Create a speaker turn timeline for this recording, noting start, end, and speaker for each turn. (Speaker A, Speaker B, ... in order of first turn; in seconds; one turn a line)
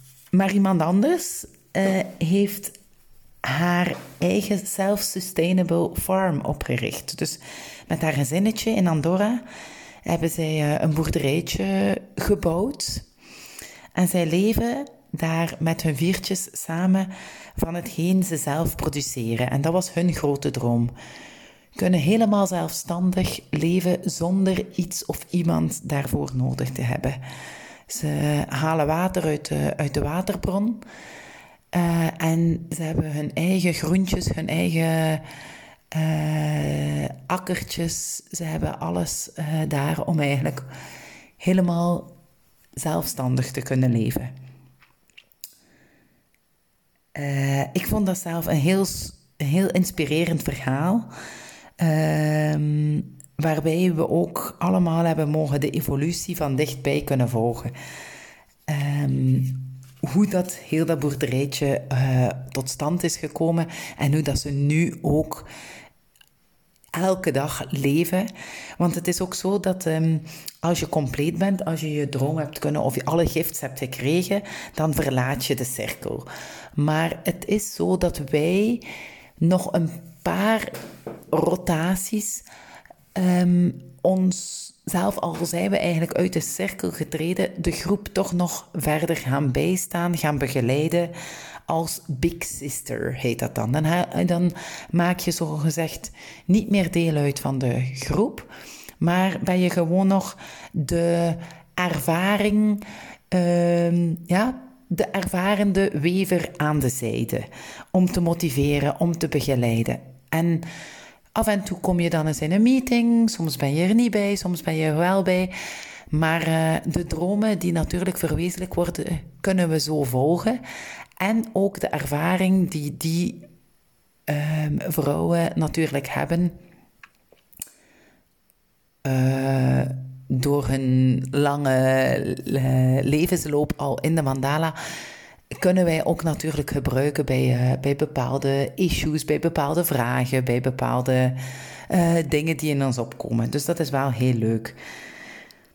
Speaker A: 0.3-2.8
Speaker A: 3.4-9.4
Speaker A: 10.0-13.1
Speaker A: 13.9-20.9
Speaker A: 21.8-27.2
Speaker A: 27.9-30.8
Speaker A: 31.7-35.2
Speaker A: 35.9-40.6
Speaker A: 41.4-42.1
Speaker A: 42.8-44.3
Speaker A: 47.1-51.1
Speaker A: 51.8-57.7
Speaker A: 58.7-65.5
Speaker A: 67.0-68.3
Speaker A: 68.8-76.2
Speaker A: 76.8-78.8
Speaker A: 79.4-80.7
Speaker A: 81.3-82.4
Speaker A: 83.1-91.1
Speaker A: 91.7-98.5
Speaker A: 99.0-110.7
Speaker A: 111.3-115.5
Speaker A: 116.1-120.6
Speaker A: 121.2-123.5
Speaker A: 124.3-126.6
Speaker A: 129.0-134.7
Speaker A: 135.6-144.8